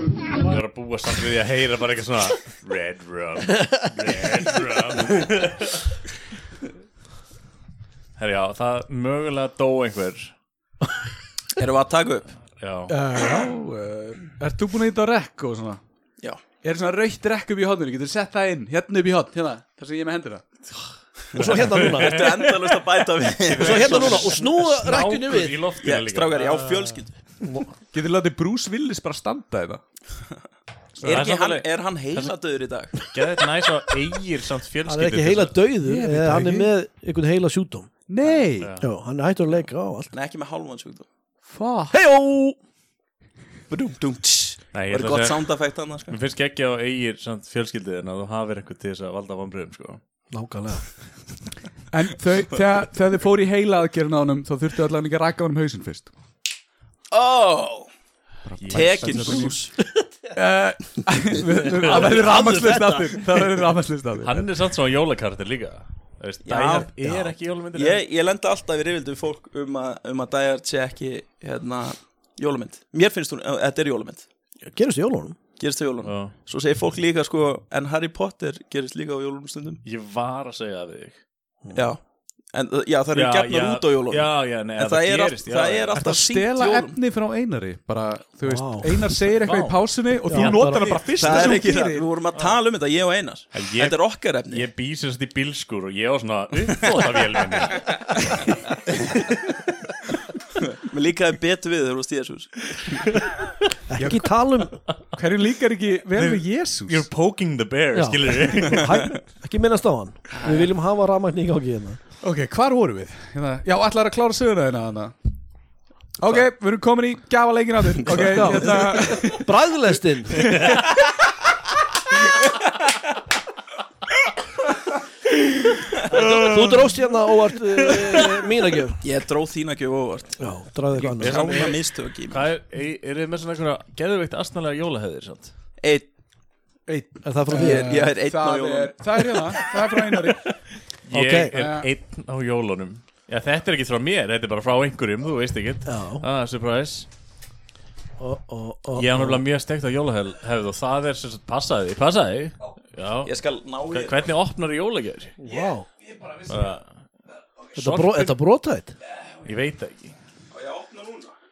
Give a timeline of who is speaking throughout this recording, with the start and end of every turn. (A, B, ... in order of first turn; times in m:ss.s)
0:00.3-0:05.9 A
0:08.2-0:10.3 A
0:11.6-0:12.3 B
0:12.6-0:13.0 A
0:12.9-0:15.8 C
0:16.6-0:20.4 C
0:21.3-0:22.3 D
0:21.4-0:27.6 A
0:21.4-0:24.3 B
0:23.5-0:25.6 D
0:25.8-0:27.2 B
0:27.9-0:29.8 C
0:31.0-0:32.3 A
0:31.0-0:32.9 B
0:33.0-0:35.6 A
0:34.8-0:37.9 D
0:35.8-0:36.7 C
0:38.1-0:38.7 C
0:38.5-0:38.9 A
0:38.8-0:40.1 D
0:40.1-0:41.1 B
0:41.5-0:41.9 C
0:41.9-0:42.6 D
0:43.7-0:46.1 B
0:44.7-0:45.5 A
0:46.1-0:50.0 A
0:50.3-0:50.8 D
0:51.9-0:56.1 C
0:57.1-0:57.9 B
0:58.4-0:59.6 C
0:58.6-0:59.5 A
0:58.7-0:59.7 B
1:00.3-1:04.5 C
1:01.7-1:02.9 A
1:02.3-1:02.7 D
1:04.2-1:08.0 A
1:06.4-1:06.9 B
1:07.7-1:14.2 B
1:14.6-1:15.4 D
1:15.6-1:19.8 B
1:16.0-1:16.3 A
1:19.8-1:21.2 A
1:21.7-1:22.0 B
1:22.5-1:27.0 B
1:23.1-1:26.0 A
1:26.0-1:32.0 C
1:28.4-1:29.0 D
1:29.3-1:31.6 A
1:30.3-1:31.0 D
1:31.2-1:34.6 B
1:33.5-1:38.4 A
1:39.0-1:39.2 A
1:40.6-1:43.1 B
1:43.9-1:44.8 D
1:44.0-1:44.3 C
1:45.1-1:47.1 C
1:46.2-1:49.1 A
1:47.9-1:52.0 D
1:50.3-1:50.7 B
1:52.2-1:55.1 C
1:56.2-1:59.5 C
1:58.3-2:00.5 D
2:06.1-2:09.0 D
2:06.1-2:06.7 C
2:06.3-2:06.6 A
2:09.0-2:10.4 B
2:10.4-2:11.7 D
2:11.2-2:12.5 B
2:11.2-2:15.5 A
2:15.8-2:16.1 B
2:16.9-2:20.5 C
2:17.2-2:18.0 D
2:17.5-2:18.9 B
2:21.1-2:27.1 A
2:21.1-2:21.5 D
2:21.5-2:21.9 C
2:25.8-2:26.2 D
2:28.2-2:29.4 D
2:29.0-2:33.4 A
2:33.2-2:34.2 B
2:33.9-2:35.3 A
2:35.4-2:35.8 D
2:36.4-2:36.9 A
2:37.7-2:38.4 A
2:37.8-2:38.9 D
2:39.4-2:40.1 A
2:40.5-2:41.3 B